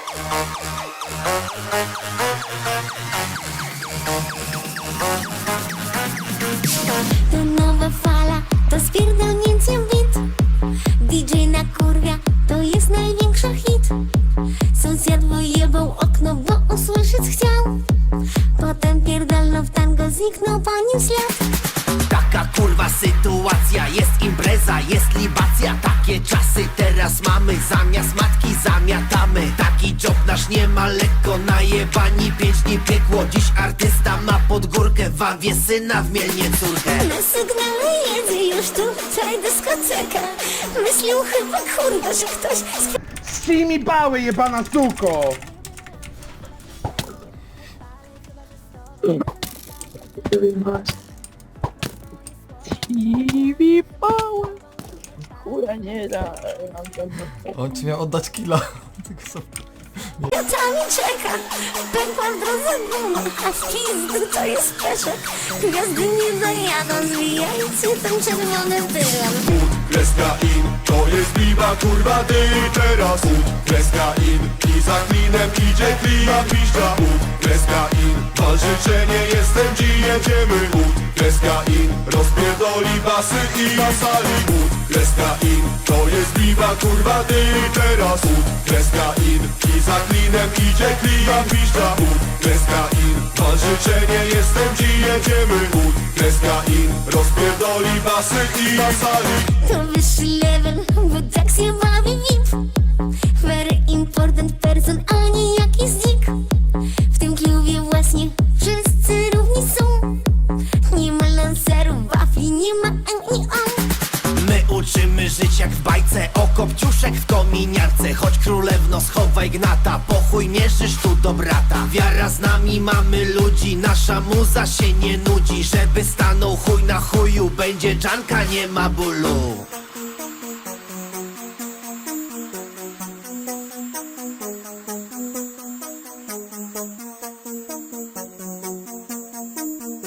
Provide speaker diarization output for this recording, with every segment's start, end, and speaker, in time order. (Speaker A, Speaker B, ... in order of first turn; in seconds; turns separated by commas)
Speaker A: 7.2-10.3, Speaker A: 11.0-14.0, Speaker A: 14.7-17.8, Speaker A: 18.5-21.4, Speaker B: 22.1-37.1, Speaker A: 37.0-43.0, Speaker C: 43.2-45.4, Speaker D: 50.3-50.9, Speaker D: 52.7-54.6, Speaker D: 55.4-57.8, Speaker E: 57.5-60.3, Speaker A: 60.3-69.5, Speaker F: 69.5-99.6, Speaker A: 99.6-106.4, Speaker A: 107.1-110.2, Speaker A: 110.8-113.9, Speaker B: 114.3-129.7